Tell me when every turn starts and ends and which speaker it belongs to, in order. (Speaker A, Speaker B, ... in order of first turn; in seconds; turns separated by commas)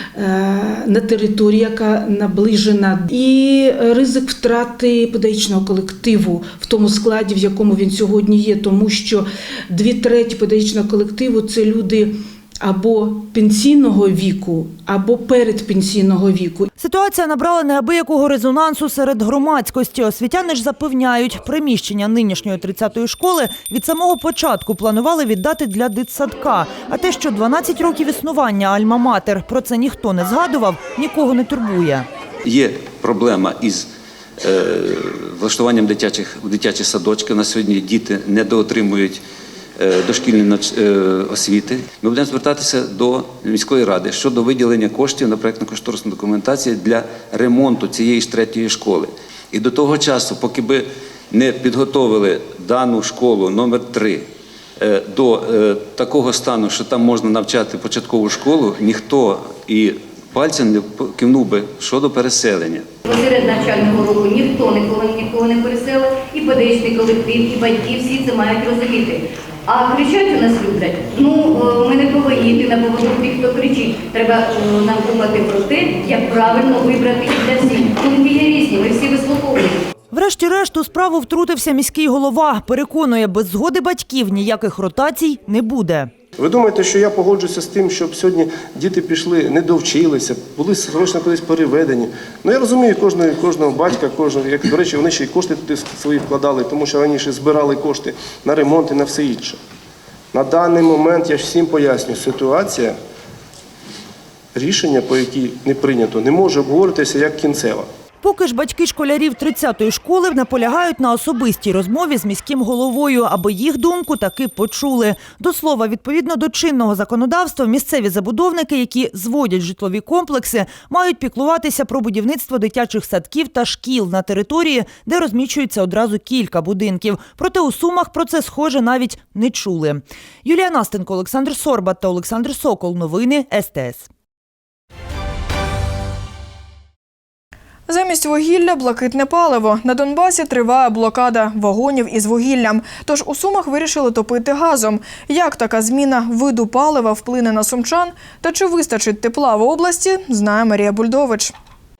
Speaker A: 0.1-16.7, Speaker B: 16.8-32.1, Speaker C: 32.4-33.9, Speaker C: 34.4-39.2, Speaker C: 39.8-62.9, Speaker D: 63.0-79.8, Speaker B: 80.1-86.1, Speaker E: 86.4-99.6, Speaker E: 100.3-103.0, Speaker E: 104.5-107.9, Speaker B: 108.2-134.1, Speaker F: 137.9-151.5